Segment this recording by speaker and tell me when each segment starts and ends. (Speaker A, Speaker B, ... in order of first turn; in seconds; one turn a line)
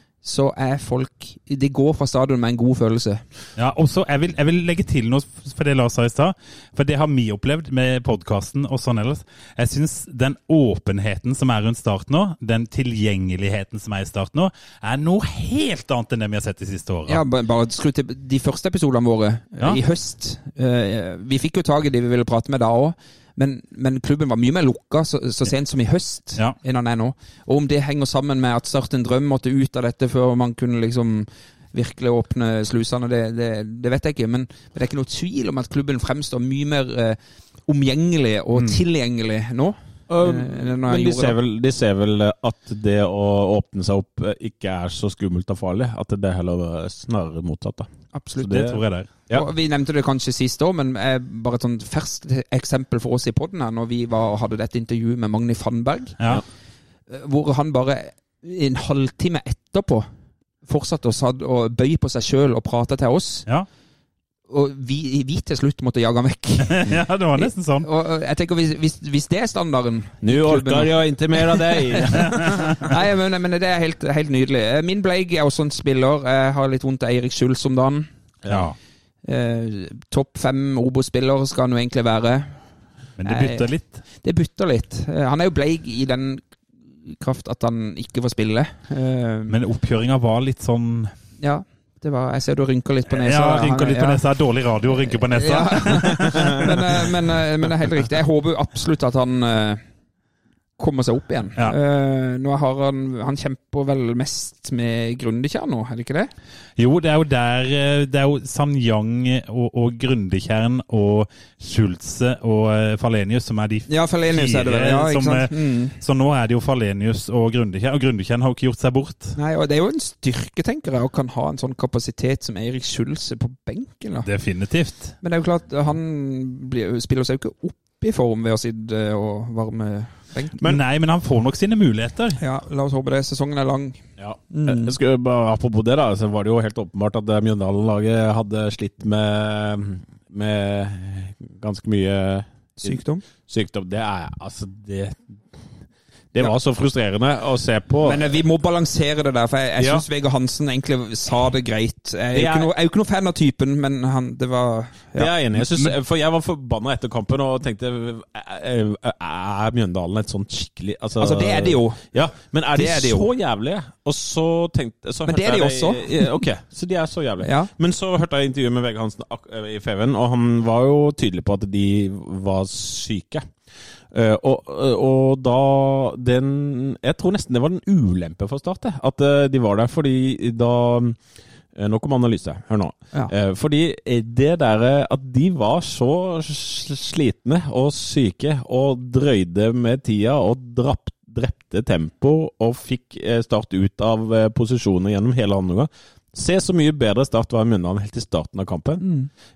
Speaker A: 0.2-3.3
Speaker B: 3.6-17.2
Speaker A: 17.1-41.4
Speaker C: 40.1-49.5
Speaker A: 48.1-56.2
Speaker B: 48.5-49.1
Speaker A: 57.1-60.1
Speaker A: 60.6-63.5
Speaker A: 64.5-78.1
Speaker B: 66.8-67.9
Speaker C: 70.2-72.6
Speaker B: 72.2-72.9
Speaker C: 78.4-78.7
Speaker B: 78.5-78.8
Speaker A: 79.2-82.6
Speaker B: 83.2-84.0
Speaker A: 83.2-89.6
Speaker B: 89.5-91.1
Speaker A: 91.4-94.2
Speaker B: 93.1-96.7
Speaker A: 94.9-99.8
Speaker A: 100.8-106.3
Speaker B: 106.8-119.4
Speaker A: 113.9-116.0
Speaker A: 119.4-124.3
Speaker B: 124.2-125.2
Speaker A: 125.2-130.6
Speaker B: 130.6-132.4
Speaker A: 132.4-135.0
Speaker C: 134.2-145.7
Speaker A: 142.8-143.2
Speaker C: 146.3-148.2
Speaker A: 148.0-155.6
Speaker C: 149.8-150.1
Speaker C: 152.3-152.7
Speaker C: 155.1-173.5
Speaker A: 161.2-162.1
Speaker A: 162.7-163.3
Speaker A: 165.3-166.4
Speaker A: 167.4-167.7
Speaker C: 174.1-199.1
Speaker A: 199.0-199.3